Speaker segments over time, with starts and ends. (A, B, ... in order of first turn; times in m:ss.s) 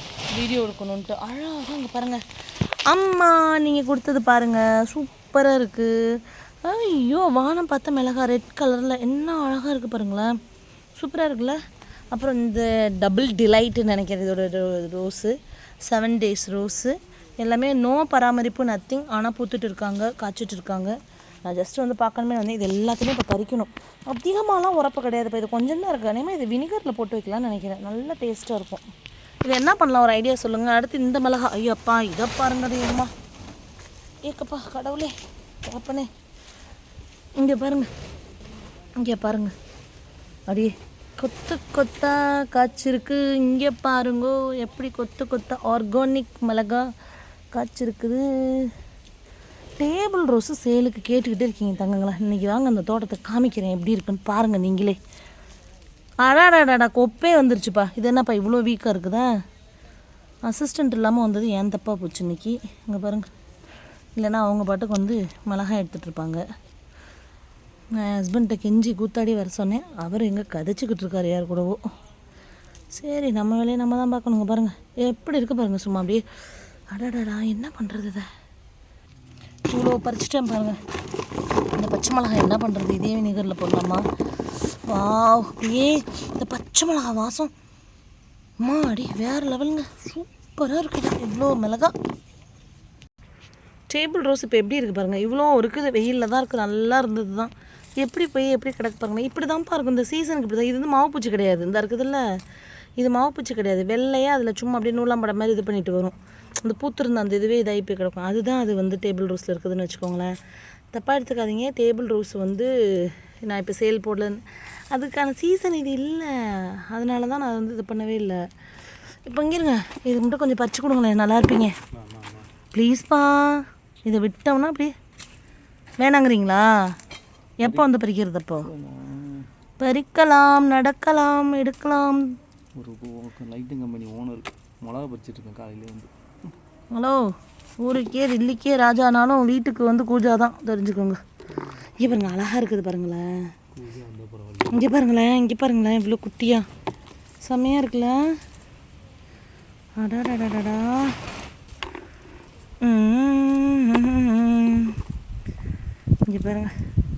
0:00.3-0:02.2 A
0:02.9-0:10.4 A
0:11.0-0:11.6 A
0:12.1-0:28.8 A
0:29.4-0:33.1 A
0:34.2-0:36.1 A
0:37.4-0:37.9 A
0:39.0-0:39.5 A
0:40.5-0:46.9 A
0:47.5-0:48.7 A
0:49.8-0:55.0 A
0:56.2-0:59.4 A
1:00.4-1:03.3 A
1:04.2-1:06.4 A
1:07.9-1:11.9 A
1:12.9-1:16.2 A
1:16.9-1:18.3 A
1:19.7-1:20.8 A
1:21.7-1:24.1 A
1:24.7-1:27.5 A
1:28.6-1:31.9 A
1:33.9-1:42.4 A
1:43.0-1:50.4 A
1:50.9-1:58.4 A
1:59.2-2:01.8 A
2:01.9-2:02.5 B
2:02.7-2:04.9 A
2:06.0-2:07.0 A
2:07.6-2:08.7 A
2:08.6-2:09.5 B
2:09.8-2:12.4 A
2:12.8-2:16.1 B
2:16.9-2:21.2 A
2:22.0-2:23.5 A
2:23.7-2:24.9 B
2:24.7-2:26.7 A
2:27.4-2:28.4 A
2:30.0-2:31.2 A
2:32.8-2:35.0 A
2:36.3-2:36.8 A